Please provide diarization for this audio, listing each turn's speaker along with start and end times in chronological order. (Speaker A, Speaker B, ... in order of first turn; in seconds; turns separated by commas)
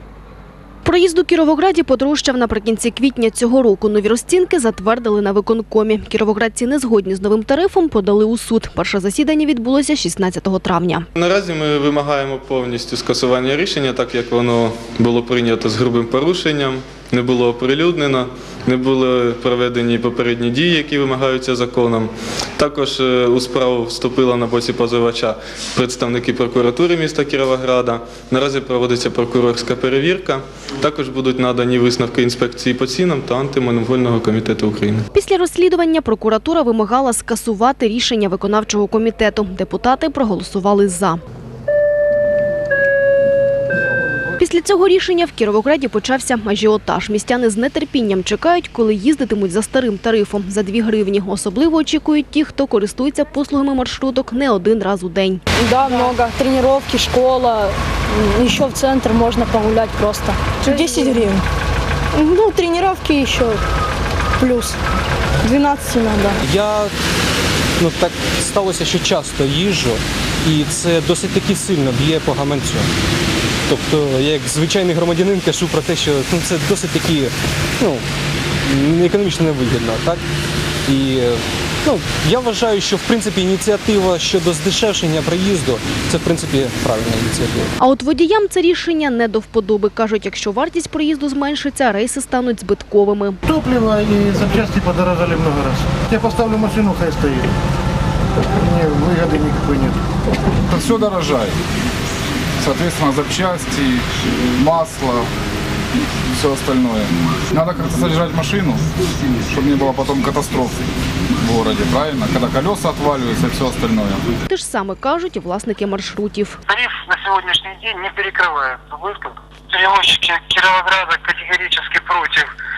Speaker A: 0.8-11.1, Speaker B: 11.2-35.0, Speaker A: 35.1-41.2, Speaker A: 44.4-55.4, Speaker C: 55.6-61.4, Speaker C: 62.1-63.6, Speaker C: 64.4-64.8, Speaker C: 65.4-66.4, Speaker D: 66.4-66.9, Speaker D: 67.8-72.9, Speaker D: 73.7-78.0, Speaker D: 78.7-80.2, Speaker D: 80.9-87.7, Speaker A: 87.8-93.4, Speaker E: 93.5-97.5, Speaker E: 98.6-100.0, Speaker F: 100.7-101.6, Speaker F: 102.6-105.3, Speaker F: 106.3-108.9, Speaker F: 109.5-110.8, Speaker F: 111.4-114.3, Speaker A: 114.5-116.6, Speaker G: 116.7-122.5